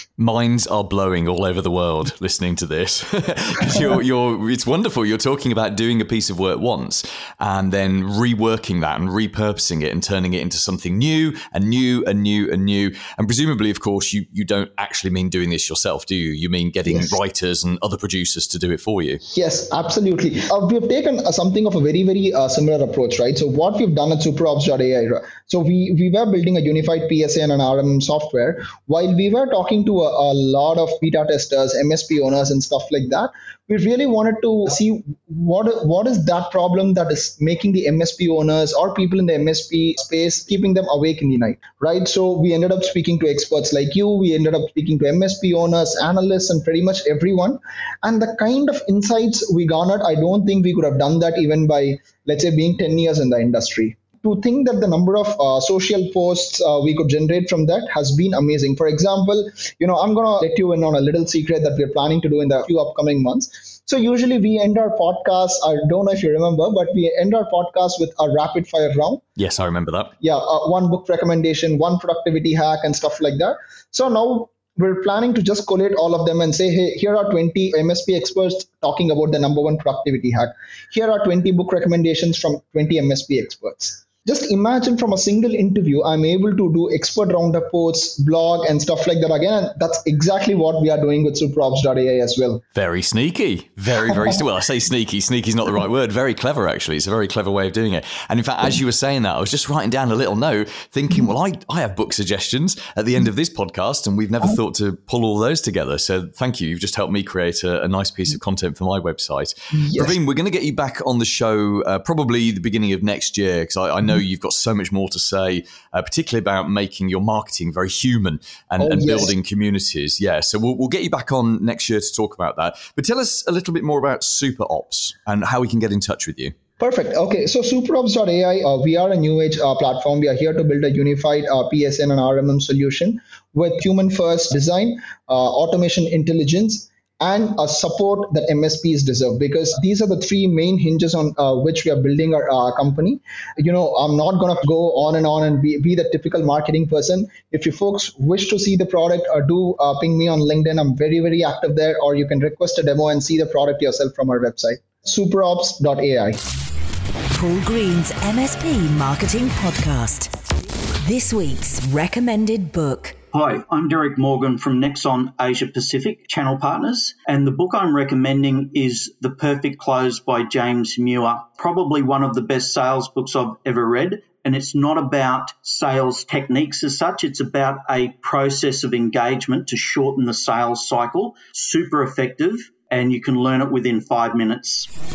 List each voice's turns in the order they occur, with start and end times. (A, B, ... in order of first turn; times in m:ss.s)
0:00.2-0:19.2 A
0:19.3-1:09.2 B
1:09.4-1:10.1 A
1:10.2-1:32.6 B
1:32.8-2:06.5 A
1:49.7-1:50.2 B
1:58.8-1:59.3 B
2:06.8-2:36.4 B
2:37.3-2:40.3 C
2:41.0-2:43.2 C
2:43.3-3:04.9 D